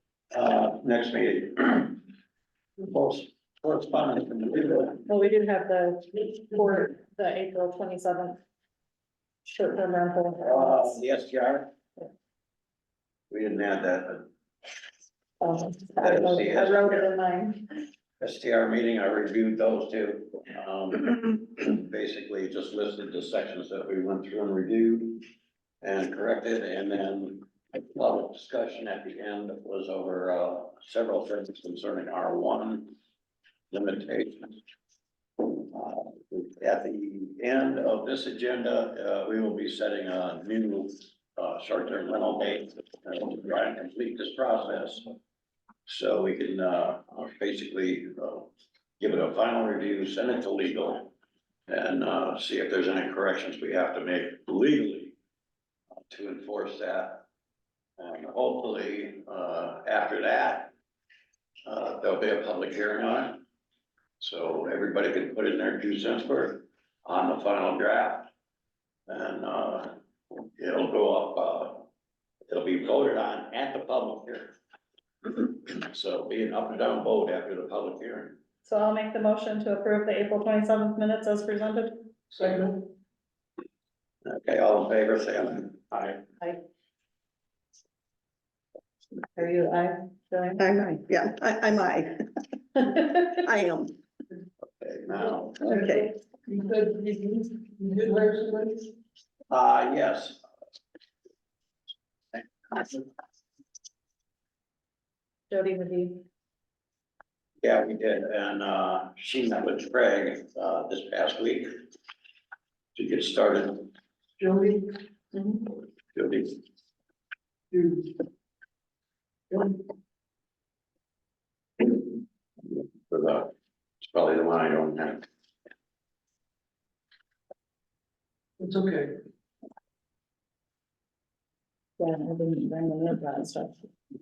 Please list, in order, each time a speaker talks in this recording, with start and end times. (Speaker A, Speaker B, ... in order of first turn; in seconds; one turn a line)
Speaker A: 0.3-2.0
Speaker A: 2.8-5.1
Speaker B: 5.1-8.4
Speaker B: 9.4-11.0
Speaker A: 10.4-11.7
Speaker A: 13.3-14.2
Speaker B: 15.4-17.7
Speaker A: 16.0-17.1
Speaker A: 18.2-25.2
Speaker A: 25.8-32.9
Speaker A: 33.7-34.6
Speaker A: 35.4-45.1
Speaker A: 45.9-51.1
Speaker A: 51.7-55.2
Speaker A: 56.1-57.2
Speaker A: 58.0-60.7
Speaker A: 61.7-63.4
Speaker A: 64.2-68.3
Speaker A: 69.1-71.9
Speaker A: 72.5-74.5
Speaker A: 75.4-78.4
Speaker B: 78.7-82.1
Speaker C: 82.3-82.9
Speaker A: 84.2-86.2
Speaker B: 89.2-90.6
Speaker D: 90.6-94.0
Speaker A: 94.7-95.7
Speaker C: 95.2-98.9
Speaker D: 95.6-96.1
Speaker A: 99.5-100.4
Speaker A: 102.7-103.0
Speaker B: 105.5-106.2
Speaker A: 107.6-111.8
Speaker A: 113.0-113.9
Speaker C: 114.4-115.6
Speaker A: 116.1-116.6
Speaker C: 117.7-118.2
Speaker C: 119.5-119.8
Speaker A: 122.6-125.3
Speaker C: 128.6-129.2
Speaker B: 132.0-133.9